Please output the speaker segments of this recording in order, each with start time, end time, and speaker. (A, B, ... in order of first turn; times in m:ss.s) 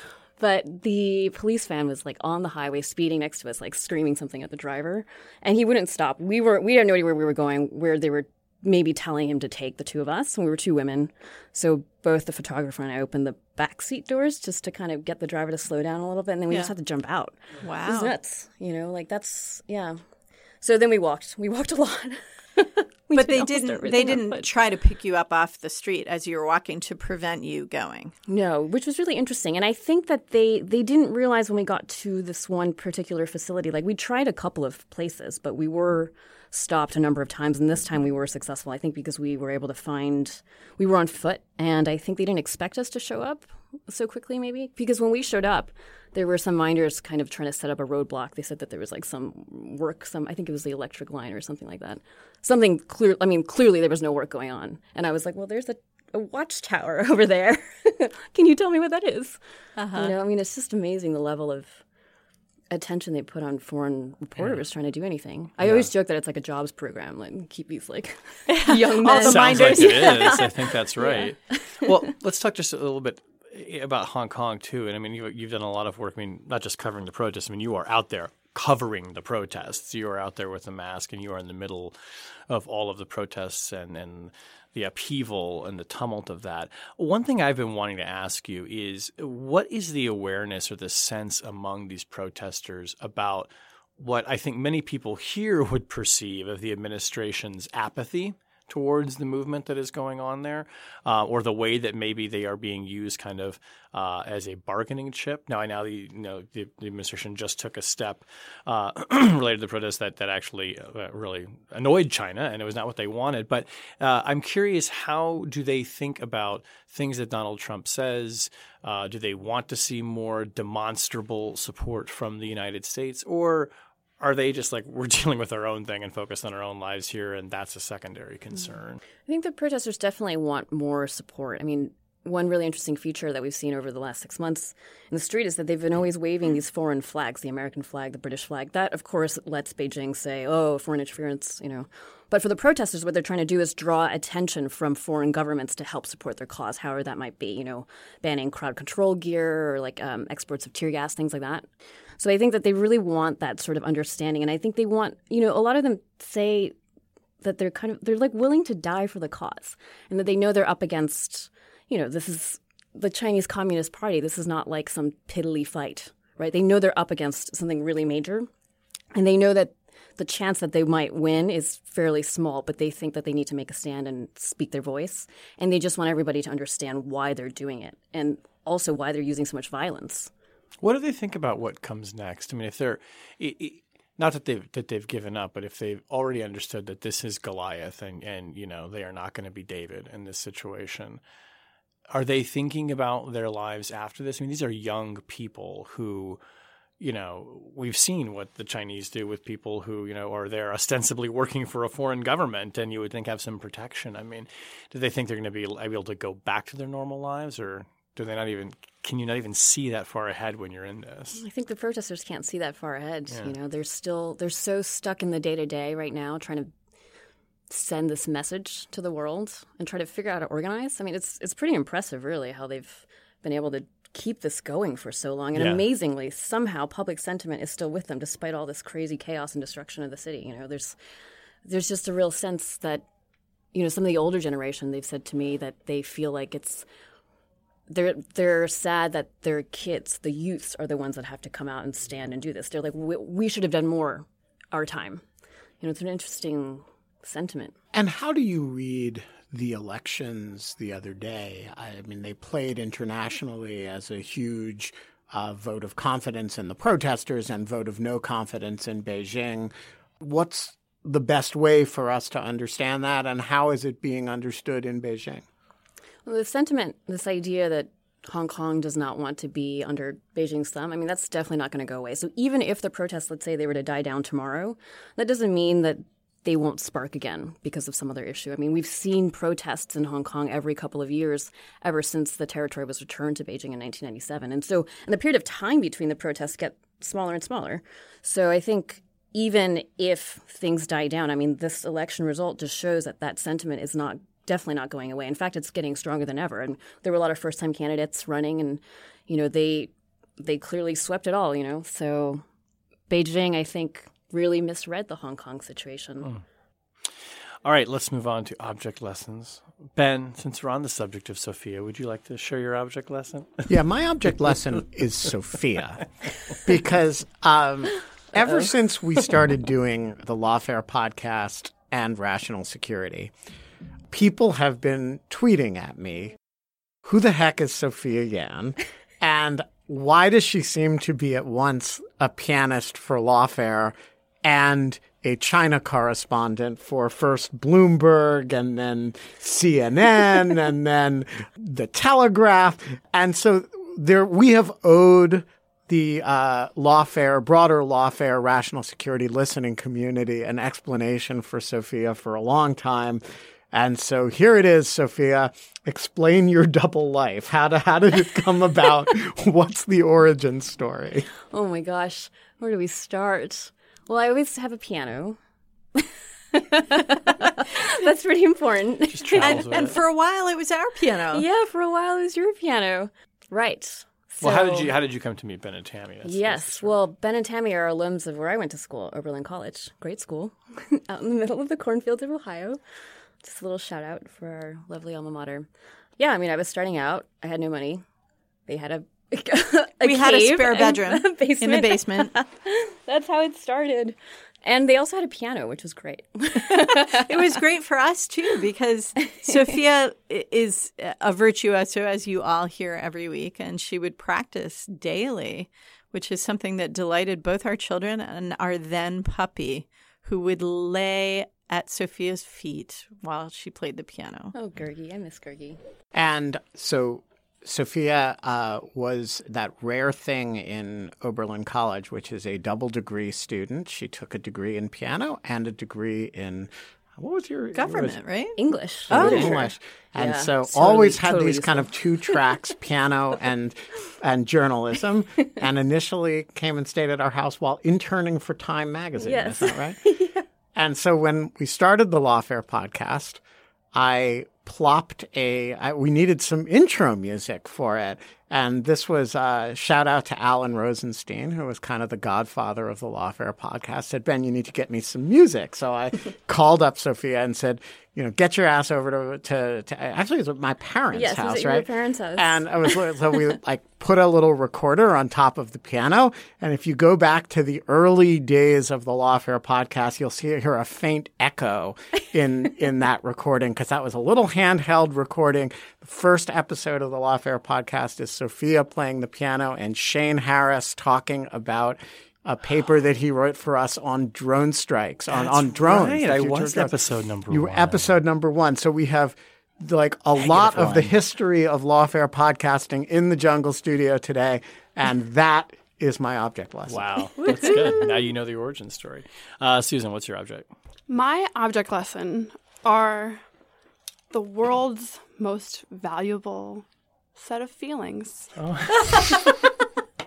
0:00.4-0:20.0 A
0:17.6-0:18.1 B
0:20.6-0:24.5 A
0:23.1-0:28.1 B
0:28.3-0:59.4 A
0:59.8-1:00.1 B
0:59.9-1:01.8 A
1:02.7-1:12.1 A
1:04.4-1:04.6 C
1:05.6-1:05.9 C
1:08.5-1:10.4 B
1:09.2-1:21.9 C
1:22.5-2:09.0 C
2:09.3-2:31.6 A
2:32.2-2:36.7 A
2:37.4-2:48.5 A
2:49.1-3:00.3 A
3:00.8-3:11.2 C
3:12.1-3:16.4 C
3:17.0-3:31.4 C
3:31.4-3:36.7 A
3:33.3-3:33.5 C
3:37.7-3:51.0 A
3:45.5-3:45.8 C
3:51.6-3:53.0 A
3:53.7-3:56.8 A
3:57.9-4:05.2 A
4:05.8-4:07.7 A
4:07.9-4:25.4 D
4:26.2-5:02.4 A
5:03.1-5:06.3 A
5:07.6-5:13.7 C
5:13.7-5:16.0 D
5:16.6-5:23.3 D
5:24.1-5:26.4 D
5:27.0-5:53.2 D
5:53.7-6:01.3 D
6:01.5-6:05.4 A
6:06.0-6:09.6 A
6:09.1-6:10.0 C
6:09.4-6:11.4 B
6:11.3-6:14.9 A
6:14.4-6:16.9 C
6:16.2-6:22.8 A
6:23.4-6:25.7 A
6:26.2-6:28.0 A
6:28.7-6:37.6 A
6:30.0-6:32.3 B
6:37.1-6:54.5 B
6:39.2-6:39.8 A
6:54.5-6:55.8 A
6:56.1-7:08.2 D
7:07.7-7:08.6 B
7:08.6-7:12.4 A
7:09.1-7:09.6 B
7:09.1-7:20.0 D
7:19.2-7:20.4 A
7:20.7-7:23.4 D
7:23.9-8:07.0 D
7:41.1-7:43.0 A
8:05.3-8:08.1 C
8:07.5-8:17.0 D
8:10.4-8:11.1 C
8:16.9-8:20.7 C
8:21.1-8:23.4 E
8:24.3-8:28.5 E
8:28.6-8:29.4 C